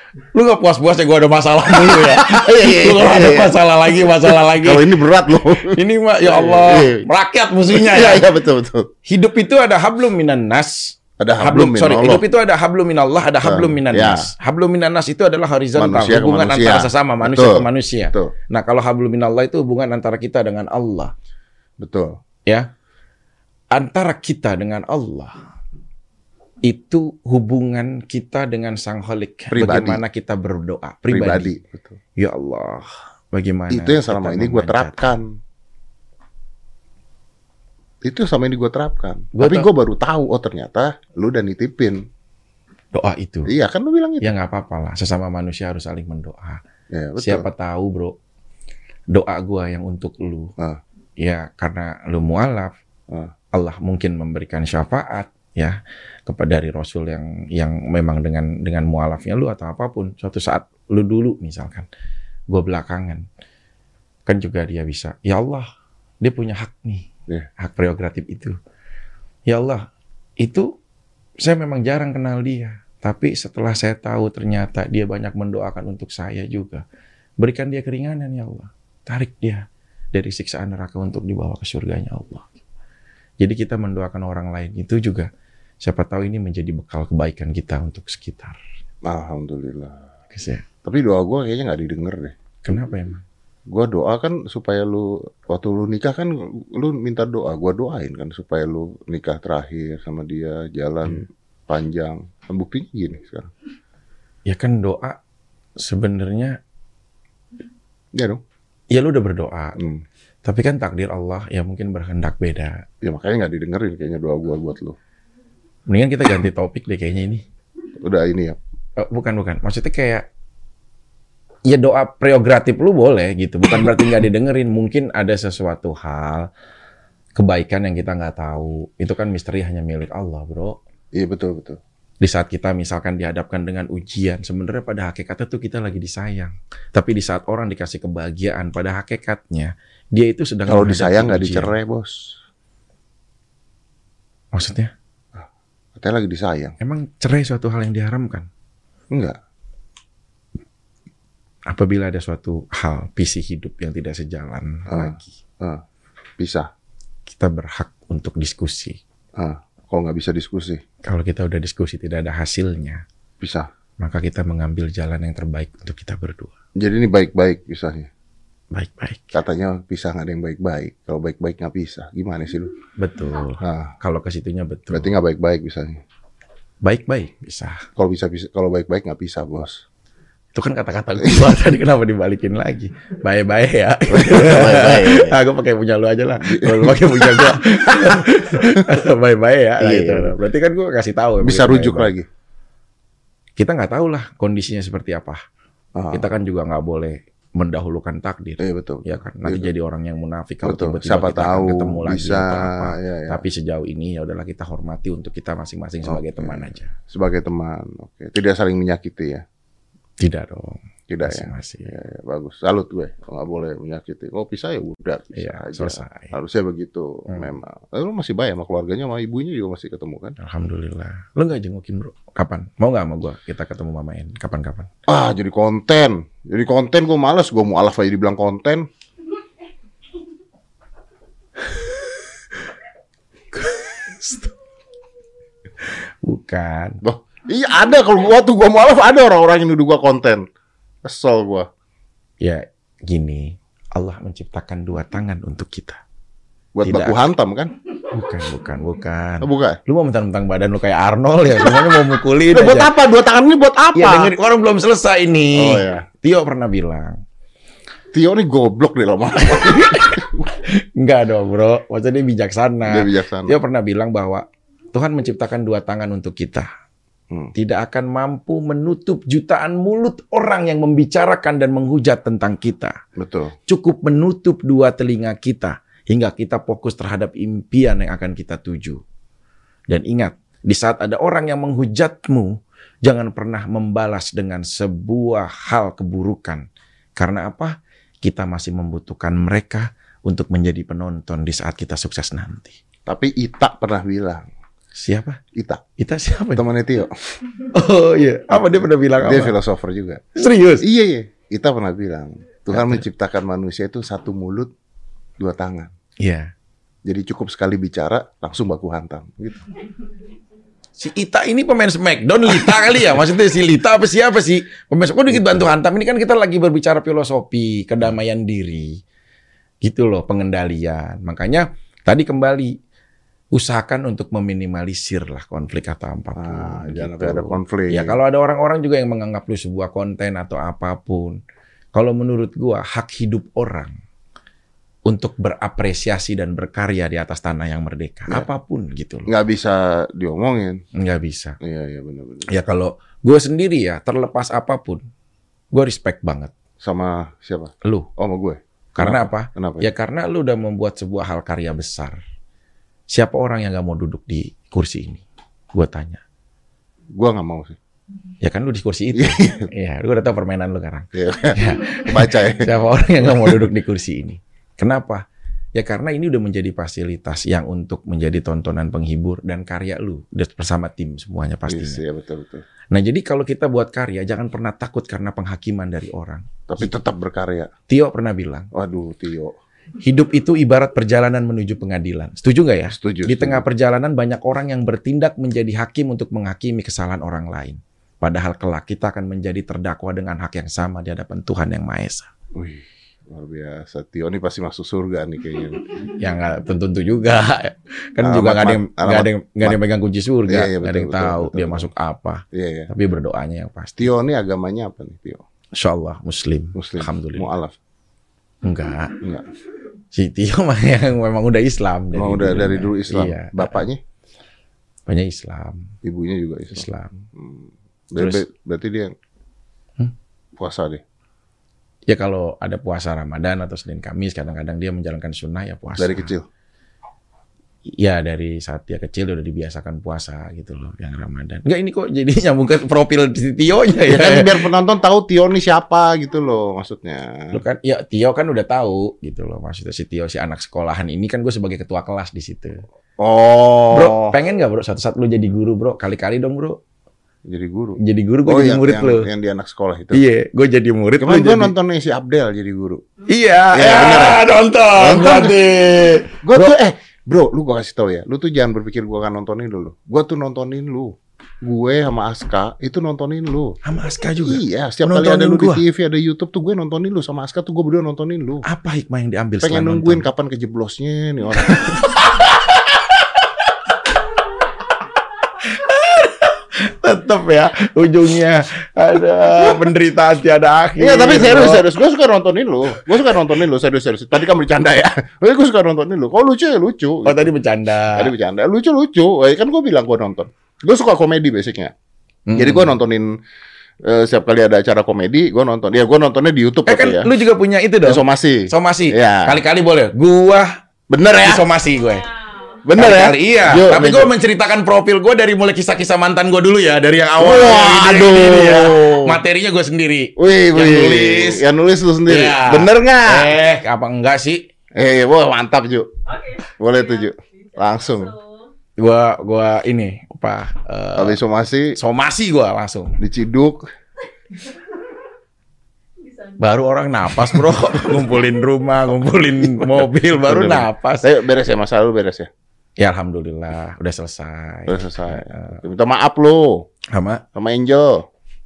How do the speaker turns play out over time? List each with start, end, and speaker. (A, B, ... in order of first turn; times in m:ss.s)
0:00.3-0:05.0 A
0:01.8-0:07.1 B
0:05.6-0:08.3 A
0:07.7-0:08.9 B
0:09.1-0:21.1 A
0:11.2-0:12.2 B
0:13.4-0:14.3 B
0:15.8-0:18.3 B
0:21.8-0:22.2 B
0:23.7-0:25.4 A
0:26.6-0:31.5 A
0:29.5-0:30.0 B
0:31.1-0:32.0 B
0:32.2-0:35.0 A
0:33.7-0:35.3 B
0:38.0-0:42.0 B
0:39.4-0:39.7 A
0:42.9-0:43.5 A
0:43.5-0:44.3 B
0:44.2-0:46.6 A
0:46.9-0:47.5 B
0:47.2-0:48.2 A
0:49.1-0:50.5 A
0:51.2-0:52.7 A
0:53.5-1:01.9 A
1:02.5-1:03.3 A
1:04.3-1:05.7 A
1:06.2-1:08.6 A
1:09.5-1:09.9 A
1:10.4-1:10.7 A
1:11.4-1:16.8 A
1:17.4-1:22.5 A
1:23.4-1:25.3 A
1:25.8-1:28.6 A
1:29.0-1:30.0 B
1:30.3-1:30.6 A
1:30.8-1:32.4 B
1:32.6-1:33.2 A
1:33.7-1:43.5 B
1:44.5-1:45.2 A
1:45.8-1:46.6 A
1:48.2-1:48.4 B
1:48.9-1:49.8 A
1:49.8-1:50.0 B
1:50.4-1:52.8 A
1:53.0-1:55.0 B
1:55.9-1:57.4 A
1:58.0-1:58.6 B
1:59.0-2:00.3 A
2:01.7-2:06.5 A
2:07.4-2:10.8 A
2:11.2-2:11.8 B
2:12.2-2:21.7 A
2:20.7-2:22.4 B
2:24.5-2:24.9 A
2:26.0-2:26.8 B
2:26.8-2:28.5 A
2:29.1-2:29.4 B
2:31.7-2:35.3 A
2:34.9-2:35.8 B
2:36.4-2:36.7 B
2:37.3-2:39.0 A
2:39.4-2:40.8 B
2:41.0-2:43.0 A
2:43.4-2:43.7 B
2:44.0-2:46.5 A
2:46.8-2:48.1 B
2:48.7-2:49.3 A
2:49.3-2:52.7 B
2:53.0-2:55.1 A
2:53.6-2:54.0 B
2:54.9-2:56.0 B
2:56.8-2:57.8 A
2:58.0-2:59.8 B
3:00.5-3:12.1 A
3:04.1-3:05.4 B
3:06.4-3:08.9 B
3:09.8-3:10.4 B
3:11.4-3:12.3 B
3:13.6-3:15.4 A
3:16.0-3:16.3 B
3:16.1-3:26.9 A
3:18.6-3:19.7 B
3:20.6-3:23.4 B
3:26.0-3:29.4 B
3:30.2-3:31.9 A
3:31.1-3:40.4 B
3:35.4-3:36.3 A
3:40.4-3:44.9 A
3:45.1-3:48.9 B
3:53.5-3:54.5 A
3:55.8-3:57.0 A
3:57.0-4:00.4 B
4:01.0-4:01.7 B
4:02.4-4:06.0 A
4:06.8-4:07.7 B
4:06.8-4:07.2 A
4:08.1-4:12.9 A
4:09.4-4:09.8 B
4:12.5-4:14.3 B
4:14.0-4:17.2 A
4:15.6-4:16.1 B
4:18.1-4:20.4 B
4:19.4-4:26.7 A
4:22.8-4:23.6 B
4:27.6-4:33.0 A
4:33.2-4:33.6 B
4:33.7-4:39.0 A
4:39.9-4:52.8 A
4:53.1-4:54.5 B
4:54.9-4:55.4 A
4:55.6-4:55.8 B
4:56.0-4:56.7 A
4:56.6-4:57.4 B
4:57.7-4:59.6 A
4:58.6-5:00.2 B
5:00.4-5:00.9 A
5:00.8-5:04.7 B
5:02.7-5:03.0 A
5:05.4-5:05.9 B
5:06.2-5:06.5 A
5:07.1-5:09.7 B
5:11.0-5:19.0 A
5:19.8-5:22.8 A
5:23.5-5:31.4 A
5:26.4-5:28.2 B
5:31.9-5:33.9 A
5:35.1-5:39.3 A
5:39.3-5:40.8 B
5:41.0-5:41.6 A
5:41.6-5:42.5 B
5:42.5-5:45.0 A
5:45.7-5:46.5 A
5:46.8-5:49.9 B
5:49.0-5:52.2 A
5:53.1-5:55.2 A
5:55.7-5:56.2 A
5:57.2-5:57.8 B
5:58.4-6:12.0 A
5:59.1-5:59.7 B
6:01.1-6:02.7 B
6:03.3-6:03.6 B
6:11.7-6:12.6 B
6:12.9-6:16.9 A
6:16.7-6:17.7 B
6:17.9-6:18.7 A
6:18.7-6:19.5 B
6:20.0-6:32.3 A
6:22.9-6:23.6 B
6:32.6-6:36.0 B
6:36.2-6:44.1 A
6:38.2-6:39.8 B
6:40.5-6:41.9 B
6:42.5-6:42.9 B
6:44.0-6:45.4 B
6:45.8-6:47.5 A
6:46.8-6:47.8 B
6:48.6-6:49.2 A
6:50.1-6:53.8 A
6:52.1-6:54.0 B
6:55.1-6:55.9 A
6:56.0-6:59.2 B
6:56.7-6:57.1 A
6:58.2-6:58.4 A
7:00.6-7:01.0 B
7:02.1-7:06.3 A
7:06.0-7:06.5 B
7:07.9-7:14.6 A
7:14.1-7:17.6 B
7:17.5-7:22.8 A
7:23.2-7:24.4 B
7:23.9-7:26.8 A
7:27.5-7:30.2 B
7:28.0-7:29.3 A
7:30.1-7:31.7 A
7:31.2-7:33.0 B
7:33.3-7:36.8 A
7:33.7-7:35.6 B
7:36.4-7:43.8 B
7:43.8-7:45.8 A
7:44.4-7:48.7 B
7:48.6-7:50.3 A
7:49.6-7:52.2 B
7:51.7-7:53.2 A
7:55.6-8:01.9 A
8:01.0-8:07.5 B
8:07.2-8:08.3 A
8:08.1-8:11.9 B
8:12.5-8:12.9 A
8:12.6-8:13.4 B
8:14.0-8:17.3 B
8:16.9-8:20.7 A
8:18.0-8:19.6 B
8:21.1-8:21.7 B
8:21.4-8:22.3 A
8:22.1-8:22.8 C
8:22.8-8:24.3 B
8:23.0-8:31.7 A
8:27.4-8:29.4 B
8:30.4-8:33.5 B
8:32.2-8:34.6 A
8:35.0-8:36.1 B
8:36.3-8:38.7 C
8:36.8-8:38.3 B
8:39.0-8:41.4 A
8:41.2-8:42.0 B
8:42.0-8:43.2 A
8:43.2-8:43.8 B
8:46.2-8:46.8 C
8:46.6-8:51.3 A
8:48.1-8:48.7 C
8:49.6-8:52.5 B
8:53.0-8:55.8 A
8:54.9-8:56.9 B
8:57.1-8:57.4 A
8:57.6-8:58.2 B